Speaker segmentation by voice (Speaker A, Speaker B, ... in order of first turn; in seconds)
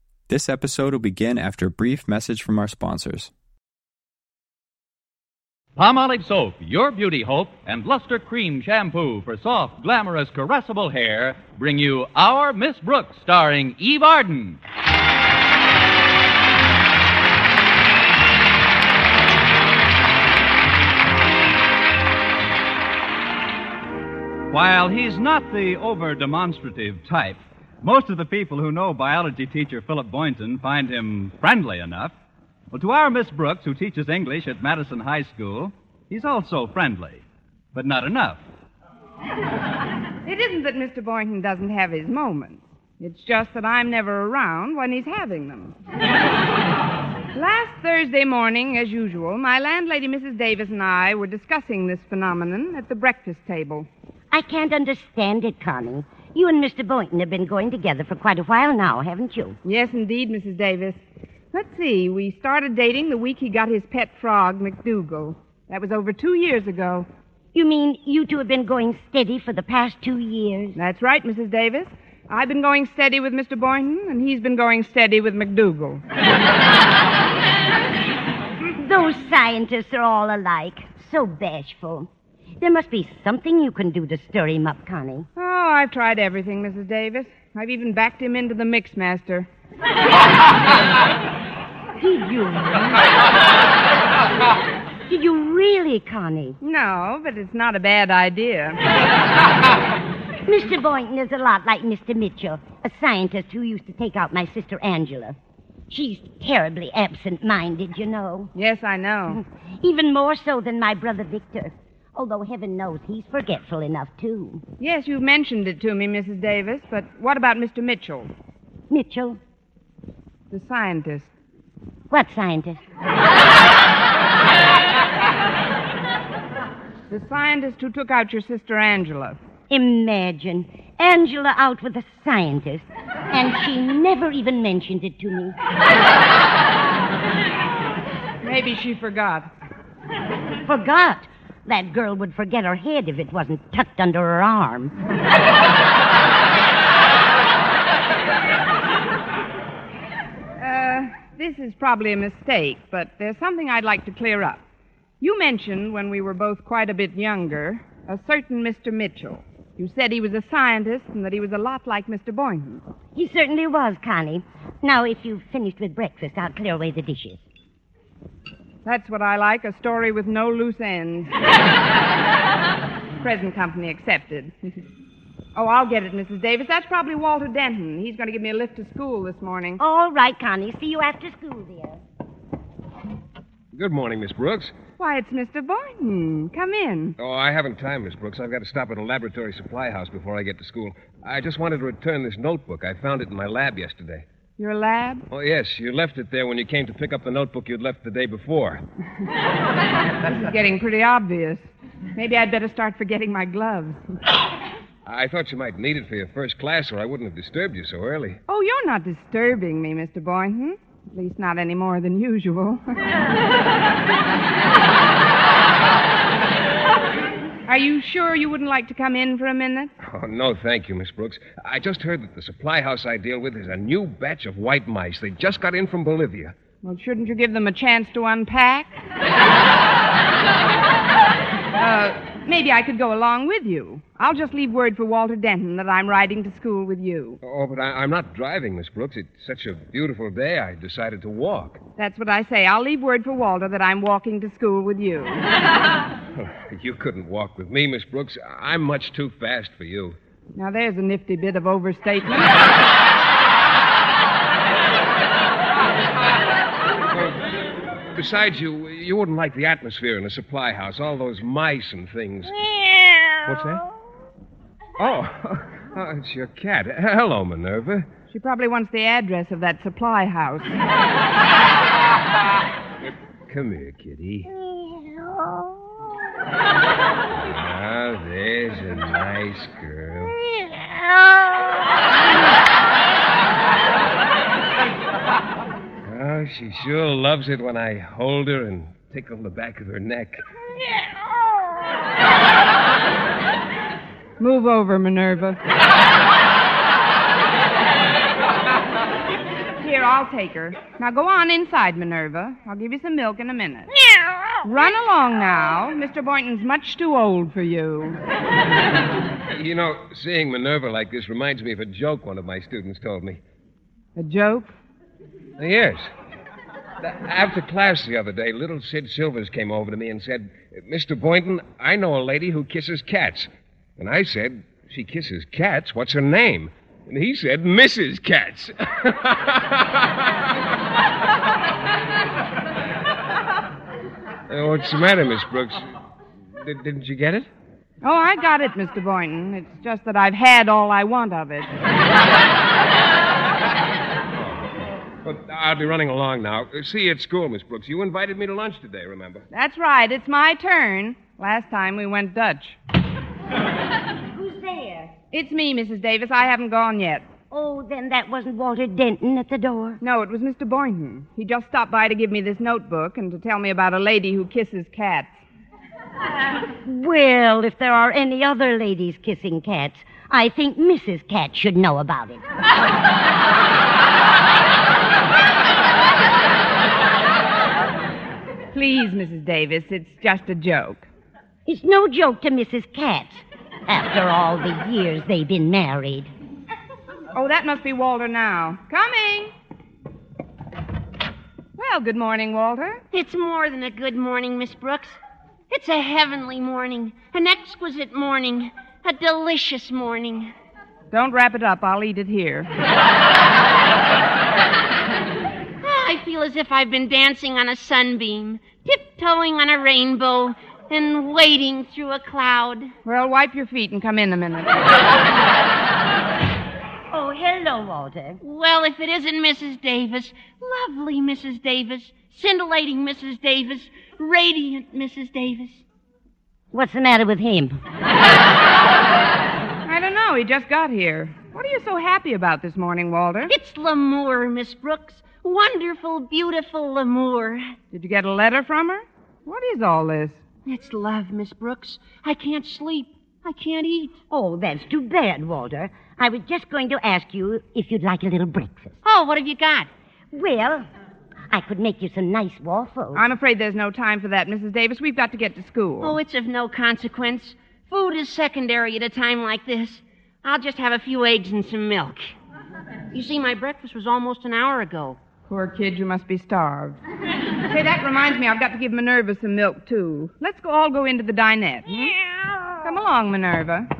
Speaker A: 0.3-3.3
Speaker B: 5.8-14.6, 24.5-32.1, 32.7-38.4
Speaker C: 40.2-45.8, 47.3-53.9, 59.6-61.0, 61.5-67.1, 70.8-76.0, 85.4-89.5, 96.6-98.8, 108.5-109.4, 114.8-118.3, 120.5-121.3, 127.1-129.4, 138.4-139.5, 150.6-154.6, 155.2-162.8, 168.8-171.3, 173.2-174.5, 175.5-179.8, 185.0-187.2, 194.6-195.2, 200.2-204.0, 208.5-213.0, 217.7-219.9, 226.8-228.9, 231.8-237.4, 242.0-245.5, 250.6-252.6, 268.3-270.8, 294.4-295.6, 299.8-303.9, 304.6-308.2, 314.2-314.7, 338.0-341.7, 349.5-352.8, 355.3-357.3, 360.0-365.3, 378.7-381.1, 387.3-389.5, 391.8-393.0, 401.1-402.7, 413.1-415.0, 429.9-433.5, 437.9-440.4, 453.1-456.2, 465.5-467.0, 467.7-472.1, 472.8-473.9
Speaker D: 54.3-59.6, 67.5-70.8, 78.8-82.1, 82.6-85.3, 92.0-93.1, 95.1-96.6, 100.5-105.4, 105.9-108.5, 109.4-114.6, 118.9-119.4, 122.1-122.8, 129.7-135.5, 140.6-145.0, 163.2-167.4, 179.8-182.0, 354.3-355.1, 357.5-360.0, 366.8-372.4, 381.7-386.3, 417.1-418.4, 426.7-427.8, 444.3-449.0, 450.3-450.9, 451.5-453.2
Speaker E: 183.7-184.7, 187.2-194.2, 195.3-198.8, 205.1-208.4, 220.0-226.6, 237.4-241.8, 246.3-250.2, 257.1-257.4, 258.1-262.6, 263.4-263.9, 265.0-268.1, 273.0-274.5, 277.4-280.4, 286.1-290.4, 309.5-313.4, 315.6-316.1, 317.0-330.3, 334.5-335.8, 336.6-337.5, 345.2-349.4
Speaker F: 393.1-395.2, 395.7-400.5, 405.8-412.9, 418.4-425.8, 433.5-437.7, 440.6-444.2, 449.0-449.9, 456.0-462.3, 463.1-465.2